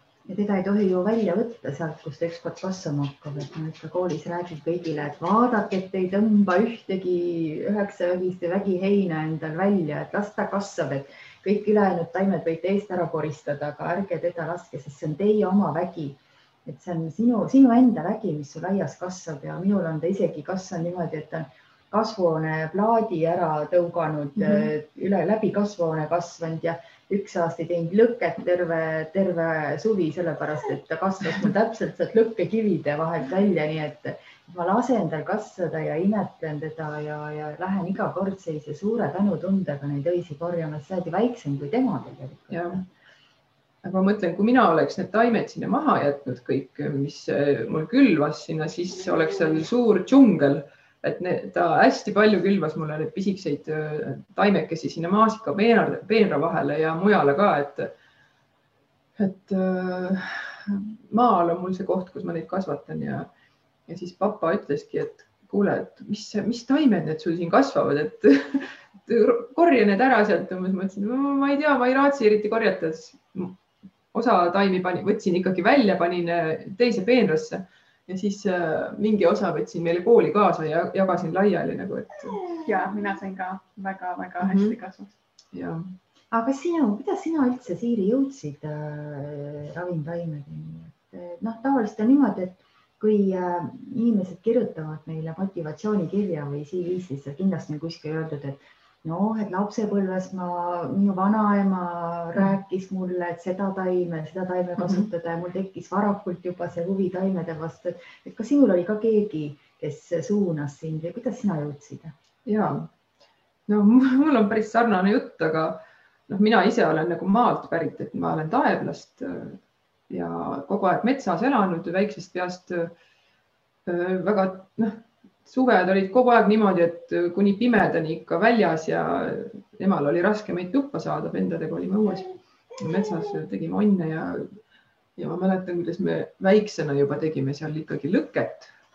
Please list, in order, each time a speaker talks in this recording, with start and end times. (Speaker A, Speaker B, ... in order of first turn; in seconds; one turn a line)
Speaker A: 0.3-42.8
Speaker B: 24.4-24.7
Speaker B: 42.5-42.8
Speaker B: 43.8-57.9
Speaker B: 59.2-63.3
Speaker B: 63.9-73.5
Speaker B: 74.1-82.4
Speaker C: 82.6-85.1
Speaker B: 84.4-84.7
Speaker B: 85.5-85.9
Speaker A: 86.3-112.1
Speaker B: 104.8-105.1
Speaker B: 112.5-112.9
Speaker B: 113.7-122.9
Speaker B: 123.8-134.6
Speaker B: 135.2-138.7